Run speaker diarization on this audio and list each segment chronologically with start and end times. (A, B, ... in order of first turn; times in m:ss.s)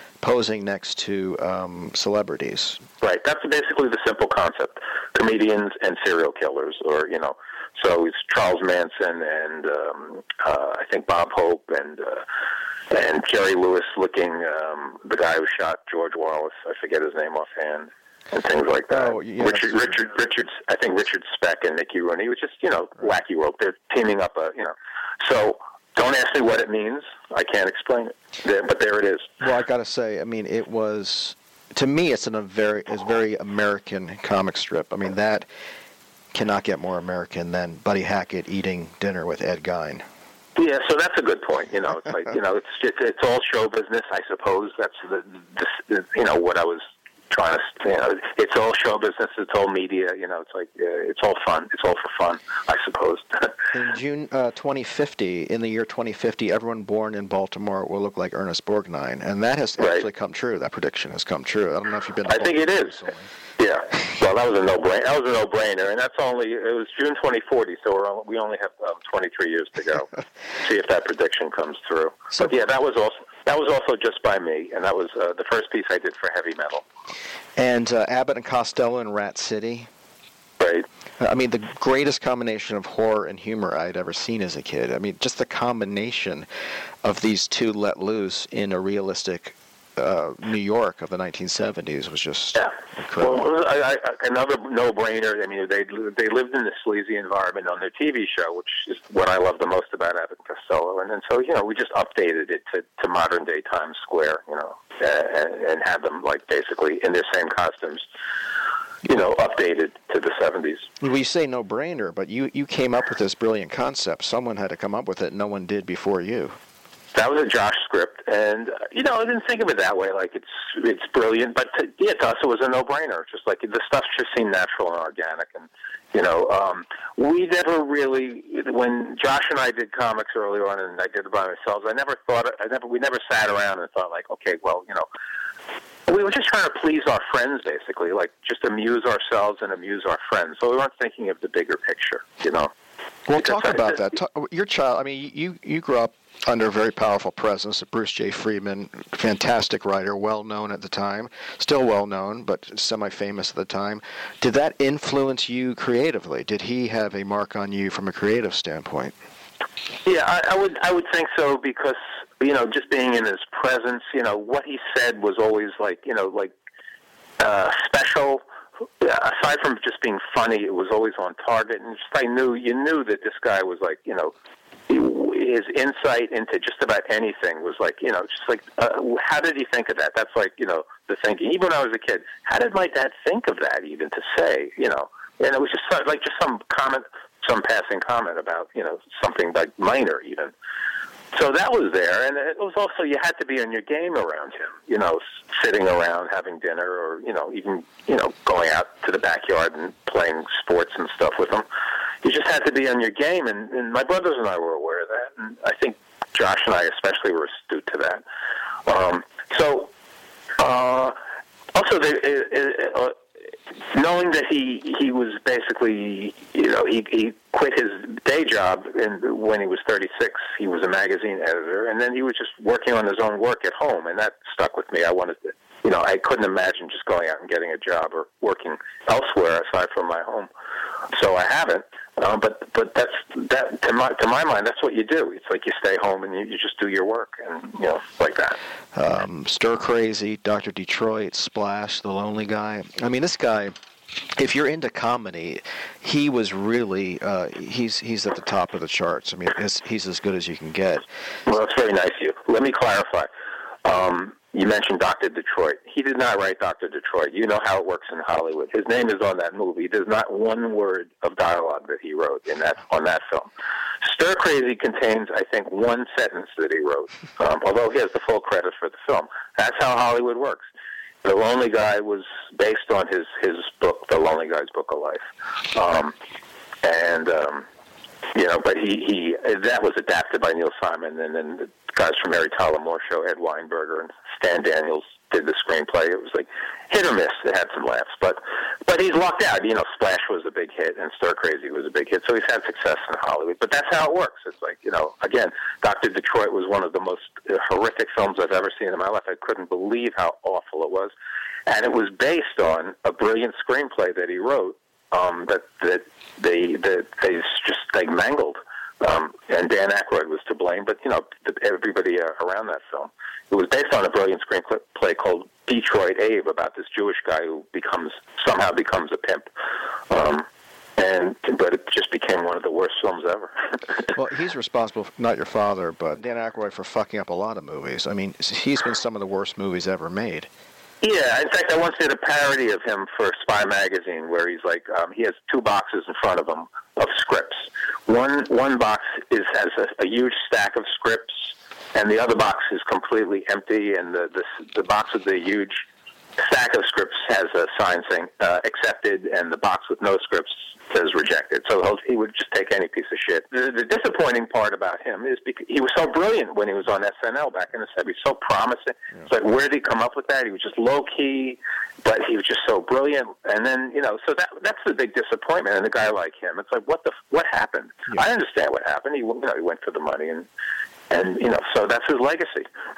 0:00.2-0:02.8 A
0:03.0-0:12.2 B
0:12.9-0:29.3 B
0:18.9-0:20.0 A
0:29.4-0:35.5 A
0:36.3-0:40.0 A
0:40.6-0:53.5 B
0:53.7-1:03.3 A
0:59.8-1:00.0 B
1:02.2-1:03.0 B
1:03.6-1:16.8 B
1:17.6-1:19.9 A
1:20.6-1:20.8 B
1:21.2-1:26.5 A
1:27.0-1:33.5 A
1:32.5-1:48.0 B
1:49.0-1:50.9 B
1:51.0-1:56.6 A
1:57.1-2:15.0 B
2:16.1-2:22.7 B
2:23.3-2:39.1 A
2:23.4-2:24.0 B
2:40.0-2:46.5 B
2:47.4-2:48.4 B
2:49.0-2:54.3 B
2:54.9-3:10.5 B
3:11.3-3:21.6 B
3:22.2-3:28.2 B
3:28.8-3:29.9 B
3:30.6-3:31.2 B
3:31.7-3:33.2 B
3:33.9-3:50.5 B
3:51.1-3:58.6 B
3:58.9-4:11.1 A
4:11.5-4:13.3 B
4:13.8-4:23.5 B
4:24.0-4:30.6 B
4:31.2-4:36.1 B
4:36.8-4:37.6 B
4:38.3-5:01.1 B
5:01.7-5:19.5 B
5:20.1-5:20.4 B
5:21.0-5:23.8 B
5:24.1-5:30.5 A
5:31.0-5:45.8 B
5:46.4-6:10.5 B
6:11.1-6:12.7 B